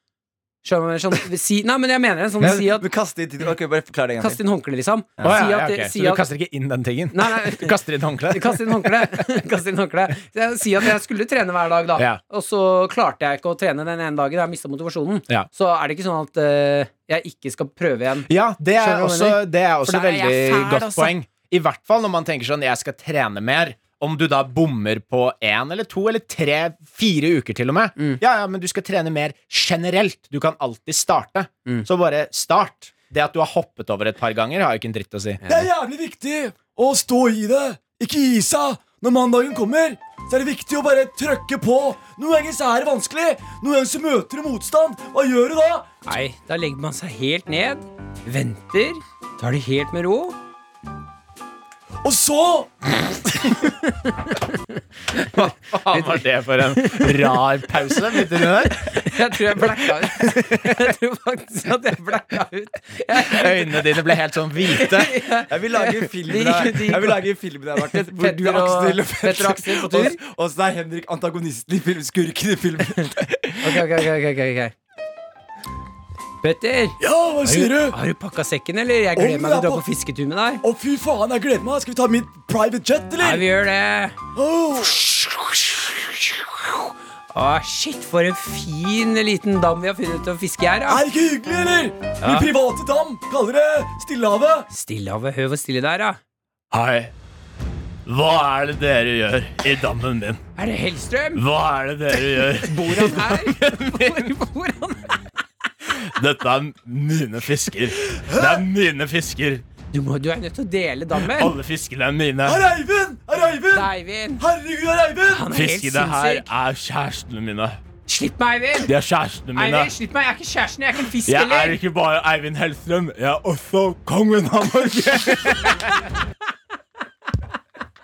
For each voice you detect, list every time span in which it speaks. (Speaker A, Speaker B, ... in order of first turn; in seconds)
Speaker A: 0.6-2.9, 4.2-6.3, 7.1-7.8, 8.3-21.1, 46.1-50.4, 53.7-55.4, 55.9-56.2, 56.8-57.3, 58.1-63.9, 64.7-67.2, 67.8-70.2, 73.6-74.7, 76.4-80.6, 83.2-84.2, 84.8-91.0, 92.2-92.5, 94.7-96.2, 100.6-101.4, 102.6-105.2, 109.9-111.6, 113.7-114.5, 115.3-116.5, 118.1-118.9, 119.5-121.8
Speaker B: 2.8-4.4, 35.5-45.9, 52.0-53.2, 65.5-73.8, 77.0-78.0, 79.2-79.8, 80.6-83.4, 84.3-85.0, 90.9-94.7, 108.2-108.6, 112.5-115.5
Speaker C: 5.2-9.2, 18.3-35.4, 55.2-59.1, 60.2-60.7, 63.2-65.2, 96.7-97.1, 98.1-100.4, 101.3-104.3, 105.9-109.6, 111.2-112.7, 115.5-117.8, 118.8-119.9, 121.3-126.1